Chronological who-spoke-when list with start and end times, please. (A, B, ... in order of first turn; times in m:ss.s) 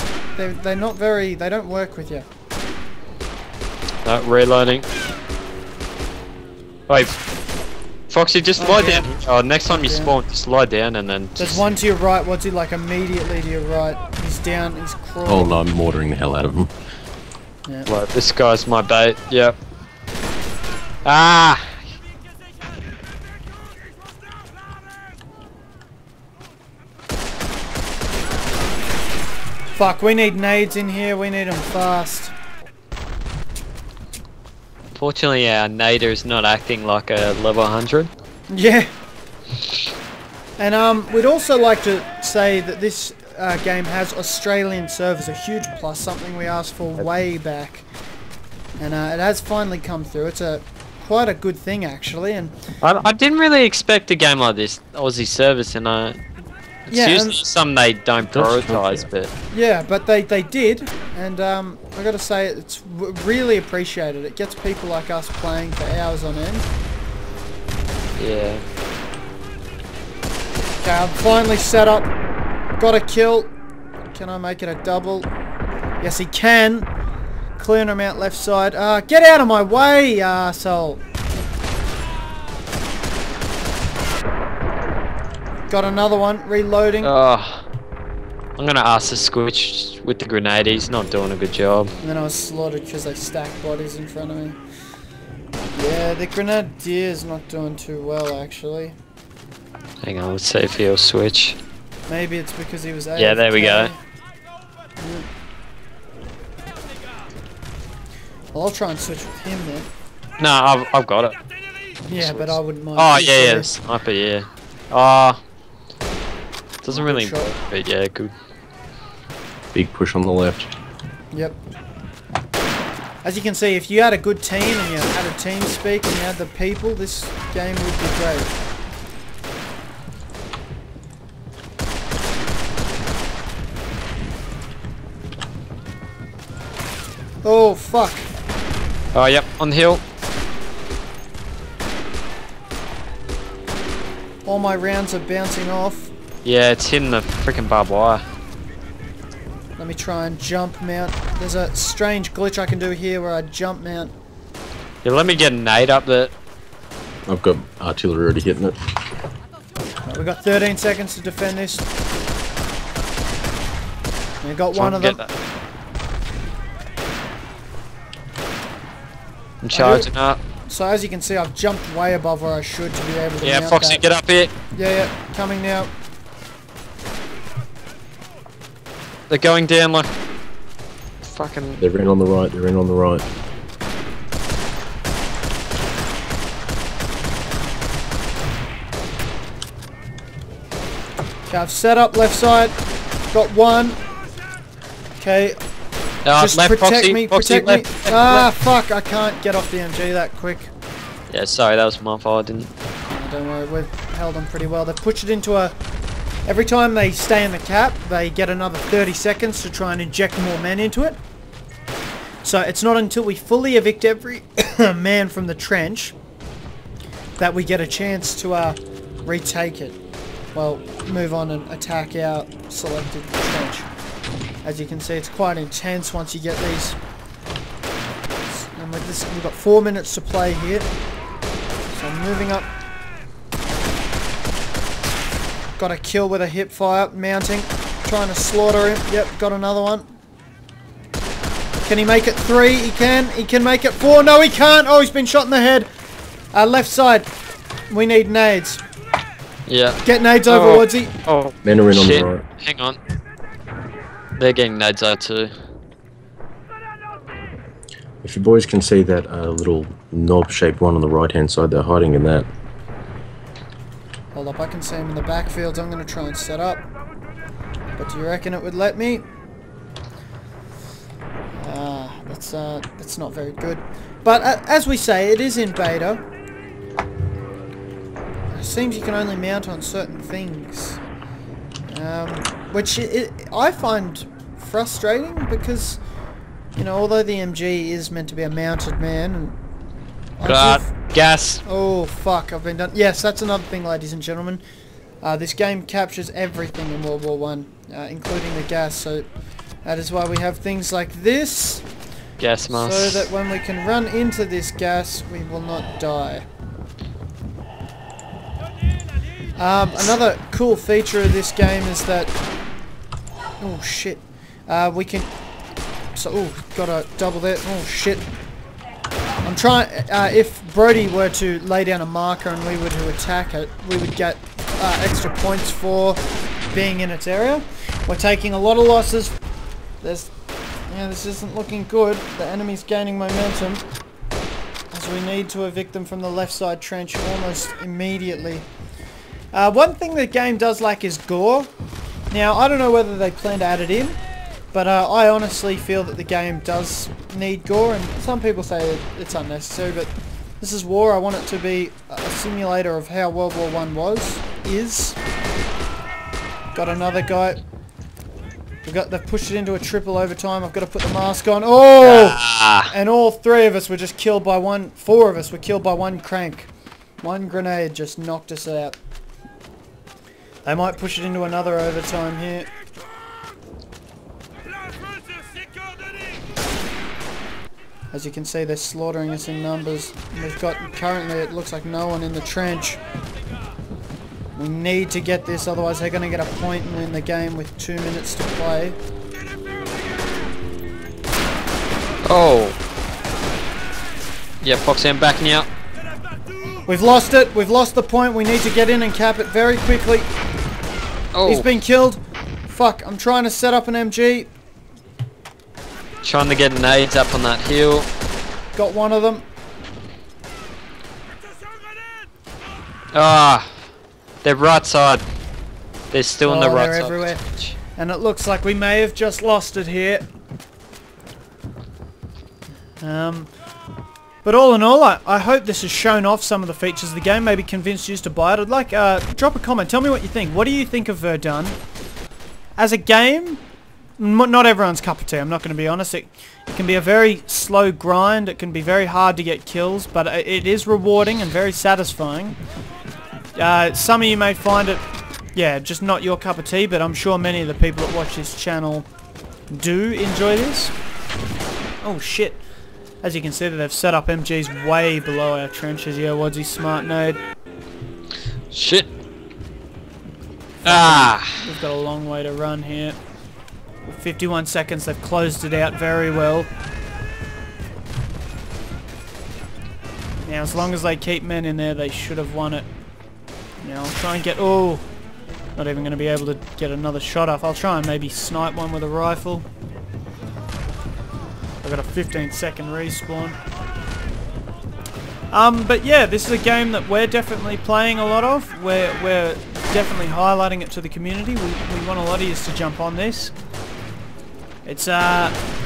0:00.4-0:02.2 A
0:04.0-0:04.9 B
0:06.9-0:07.2 B
0:08.1-0:11.6 B
0:08.6-0:09.1 A
0:09.7-0:10.1 A
0:11.4-0:15.6 A
0:15.2-0:16.7 C
0:17.9-0:19.5 B
0:21.0-0:21.9 B
0:29.8-0:32.3 A
0:34.9-0:38.1 B
0:38.5-0:38.9 A
0:40.6-0:47.8 A
0:48.8-0:52.6 A
0:52.8-0:56.2 B
0:56.9-0:59.3 B
0:56.9-0:57.4 A
0:58.2-0:59.1 C
0:59.5-1:06.7 A
1:08.2-1:08.6 B
1:10.8-1:12.1 A
1:12.8-1:13.5 A
1:14.1-1:15.3 A
1:16.0-1:16.9 A
1:17.6-1:21.0 A
1:25.7-1:27.1 A
1:27.0-1:27.6 B
1:28.6-1:31.9 B
1:32.0-1:34.6 A
1:35.7-1:39.0 A
1:40.0-1:41.6 B
1:42.1-1:44.0 A
1:43.2-1:43.9 B
1:45.0-1:45.3 A
1:48.5-1:49.9 A
1:50.4-1:51.4 B
1:52.1-1:53.7 A
1:52.2-1:55.4 B
1:56.8-1:58.3 B
1:56.9-1:57.5 A
1:59.7-2:00.7 C
2:01.3-2:01.6 A
2:03.2-2:08.5 A
2:17.4-2:18.3 A
2:19.1-2:20.0 B
2:24.4-2:26.1 A
2:26.4-2:28.2 B
2:29.8-2:34.1 A
2:35.0-2:36.3 B
2:37.3-2:38.8 C
2:40.1-2:41.9 A
2:44.4-2:45.3 A
2:44.8-2:45.2 B
2:49.6-2:50.4 B
2:49.7-2:50.1 A
2:50.6-2:54.0 A
2:53.4-2:54.5 B
2:54.7-2:55.9 A
2:59.3-3:00.1 B
3:01.2-3:01.8 B
3:01.8-3:03.2 C
3:11.5-3:12.8 A
3:13.3-3:14.0 A
3:15.2-3:15.6 A
3:16.2-3:18.5 B
3:16.4-3:20.7 A
3:21.3-3:22.7 B
3:23.1-3:25.7 A
3:26.4-3:31.2 A
3:32.4-3:36.2 A
3:37.4-3:40.0 A
3:40.6-3:43.9 A
3:44.6-3:47.0 A
3:48.5-3:50.9 A
3:51.9-3:52.7 A
3:55.8-4:00.1 A
4:01.8-4:05.9 A
4:06.5-4:07.3 A
4:07.9-4:08.8 A
4:09.6-4:13.0 B
4:10.0-4:11.1 A
4:11.6-4:12.4 C
4:14.4-4:15.5 B
4:18.2-4:22.5 C
4:24.3-4:26.8 A
4:28.0-4:29.2 A
4:31.6-4:36.2 A
4:38.5-4:41.0 A
4:41.9-4:46.0 A
4:46.8-4:49.6 A
4:50.4-4:50.9 A
4:50.4-4:51.6 B
4:51.6-4:54.6 A
4:55.2-4:59.3 A
4:59.8-5:01.8 A
5:02.4-5:03.3 B
5:02.7-5:06.4 A
5:09.6-5:12.3 A
5:13.6-5:15.3 A
5:16.1-5:18.3 A
5:19.4-5:29.4 A
5:30.0-5:30.3 A
5:30.9-5:33.8 A
5:34.9-5:38.7 A
5:39.5-5:41.7 A
5:42.3-5:44.2 A
5:44.7-5:55.2 A
5:56.8-5:57.6 A
5:58.8-6:06.7 A
6:02.0-6:02.9 B
6:07.2-6:09.0 A
6:10.6-6:12.7 A
6:18.1-6:23.0 A
6:24.6-6:29.0 A
6:32.2-6:32.8 B
6:34.6-6:35.7 B
6:36.9-6:40.3 A
6:41.3-6:41.6 B
6:41.4-6:44.5 A
6:46.2-6:48.1 B
6:48.8-6:49.4 A
6:53.1-6:53.8 B
6:54.4-6:55.2 B
6:56.1-6:57.8 B
6:56.4-6:57.4 A
6:58.0-7:00.3 A
7:03.0-7:03.5 A
7:04.4-7:11.8 A
7:12.8-7:13.6 A
7:14.2-7:22.6 A
7:23.6-7:25.0 A
7:25.6-7:29.1 A
7:29.7-7:30.9 A
7:32.0-7:32.6 A
7:33.2-7:37.4 A
7:38.7-7:39.1 B
7:40.8-7:43.2 A
7:40.9-7:41.6 B
7:44.1-7:46.7 A
7:50.4-7:52.9 A
7:53.8-7:55.0 A
7:55.8-7:59.6 A
8:01.8-8:03.6 A
8:05.5-8:13.5 A
8:14.8-8:15.6 A